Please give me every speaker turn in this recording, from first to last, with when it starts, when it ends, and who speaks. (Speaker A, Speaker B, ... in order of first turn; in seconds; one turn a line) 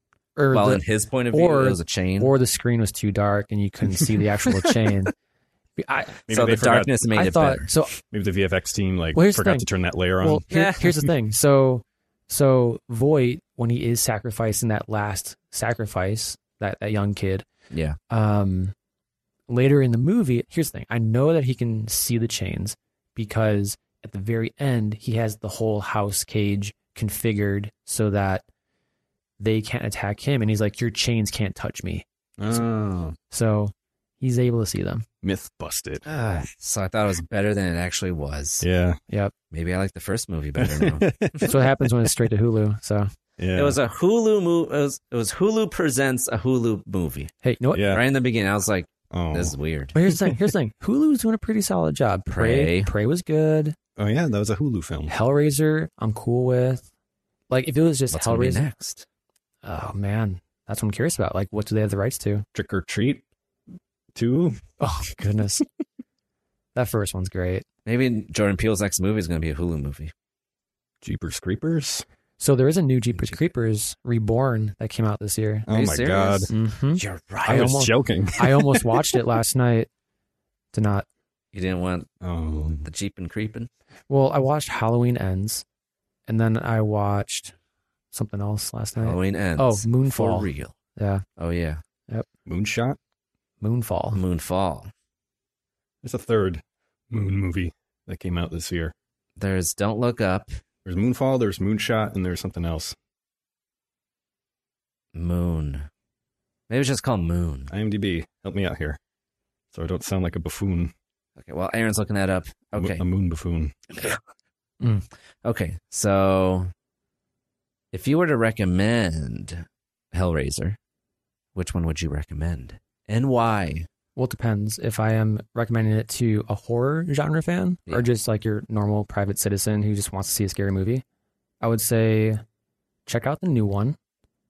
Speaker A: 0.3-5.1
Speaker B: 0.5-2.3
Speaker A: 5.8-6.2
Speaker C: 6.3-7.0
Speaker B: 6.3-7.7
Speaker A: 7.1-7.9
Speaker C: 8.1-10.4
Speaker A: 9.1-9.7
Speaker A: 10.2-17.4
Speaker B: 10.5-10.8
Speaker B: 17.7-18.0
Speaker A: 18.1-18.7
Speaker A: 19.5-28.4
Speaker A: 29.4-32.0
Speaker C: 32.4-33.2
Speaker A: 33.3-35.0
Speaker C: 35.2-36.0
Speaker B: 36.0-38.6
Speaker C: 38.6-39.0
Speaker B: 39.5-41.4
Speaker C: 40.6-41.7
Speaker A: 41.5-43.1
Speaker C: 43.4-43.8
Speaker B: 43.5-47.3
Speaker A: 47.4-47.8
Speaker C: 47.7-48.0
Speaker B: 47.9-49.9
Speaker C: 49.1-49.5
Speaker A: 49.9-53.8
Speaker B: 52.3-52.9
Speaker C: 54.0-55.1
Speaker A: 55.1-56.8
Speaker A: 57.5-58.6
Speaker B: 58.1-59.0
Speaker A: 59.6-62.5
Speaker C: 62.5-63.2
Speaker C: 64.1-64.6
Speaker A: 64.8-65.6
Speaker A: 66.7-67.6
Speaker B: 67.8-70.1
Speaker C: 71.0-72.0
Speaker A: 72.4-75.7
Speaker C: 75.7-76.5
Speaker B: 75.7-77.8
Speaker A: 76.5-79.9
Speaker C: 77.5-79.0
Speaker A: 80.7-81.0
Speaker B: 81.5-82.1
Speaker C: 82.2-82.8
Speaker B: 82.8-83.7
Speaker A: 84.1-85.6
Speaker A: 86.3-87.5
Speaker A: 88.1-91.2
Speaker B: 89.0-90.7
Speaker B: 91.4-91.8
Speaker C: 92.5-93.0
Speaker A: 93.6-94.2
Speaker B: 94.1-94.9
Speaker C: 96.0-98.9
Speaker B: 99.4-100.6
Speaker C: 100.8-103.0
Speaker B: 105.1-105.9
Speaker B: 106.7-107.7
Speaker C: 107.7-109.0
Speaker C: 109.7-110.9
Speaker B: 111.4-113.0
Speaker C: 112.8-113.7
Speaker A: 114.8-115.0
Speaker B: 115.4-116.7
Speaker B: 117.9-120.8
Speaker B: 121.5-123.9
Speaker A: 124.2-131.0
Speaker A: 131.6-132.4
Speaker A: 133.1-134.0